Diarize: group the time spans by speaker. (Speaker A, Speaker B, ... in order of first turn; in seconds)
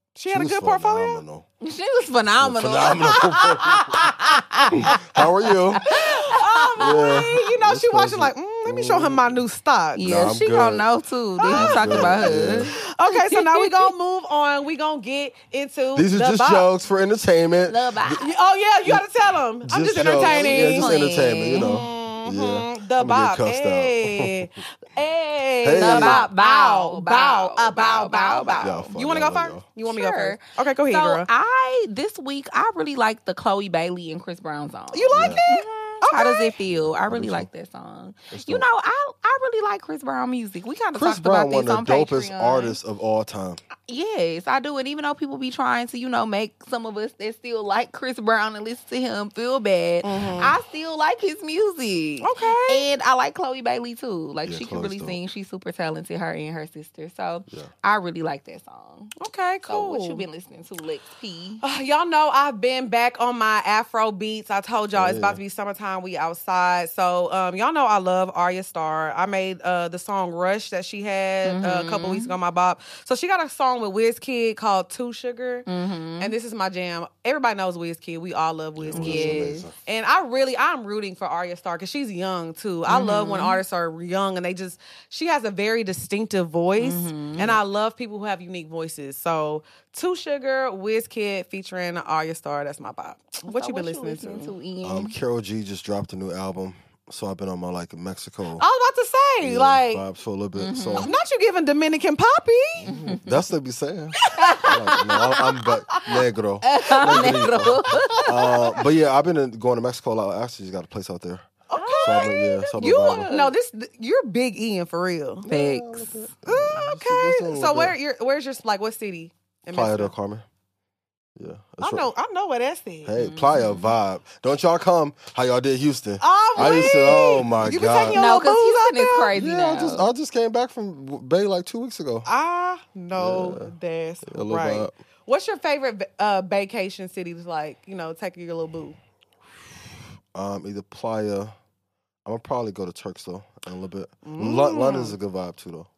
Speaker A: 0.2-1.2, 3.6-4.0, 5.8-10.1, 11.4-16.7, 18.2-20.9, 21.5-31.3, 34.9-36.5, 50.0-50.6, 52.2-52.9, 59.2-60.2, 61.6-75.7, 76.2-94.5, 98.6-100.1, 101.0-102.9, 107.0-108.8, 111.7-115.5, 116.5-120.1, 121.8-123.1, 126.2-129.3, 132.3-139.0, 144.2-145.2
Speaker B: 0.3-1.5, 2.4-4.0, 4.7-5.8, 6.8-9.4, 10.0-10.9, 11.5-12.7, 15.9-18.2, 19.6-24.5, 25.6-26.3, 28.6-29.6, 35.1-35.4, 36.8-37.5, 38.3-38.6, 41.0-43.6, 54.5-55.2, 65.0-65.4, 78.8-79.8, 94.8-98.6, 99.4-101.1, 102.8-111.5, 112.0-113.3, 115.5-118.0, 119.7-120.5, 121.4-122.1, 123.0-128.2, 129.3-132.3, 133.2-133.7, 134.3-135.0, 140.3-141.5, 142.2-145.9
Speaker C: 1.6-5.0, 5.8-6.9, 9.9-13.9, 17.7-18.3, 20.0-21.7, 25.8-28.9, 29.9-42.8, 43.9-59.1, 59.7-61.6, 71.5-72.3, 75.7-76.3, 79.0-79.7, 82.9-83.6, 86.8-87.6, 93.5-95.2, 100.6-101.1, 102.9-103.3, 104.4-105.4, 106.6-108.3, 111.7-113.5, 115.5-116.3, 123.2-123.9, 126.6-127.4, 128.1-130.1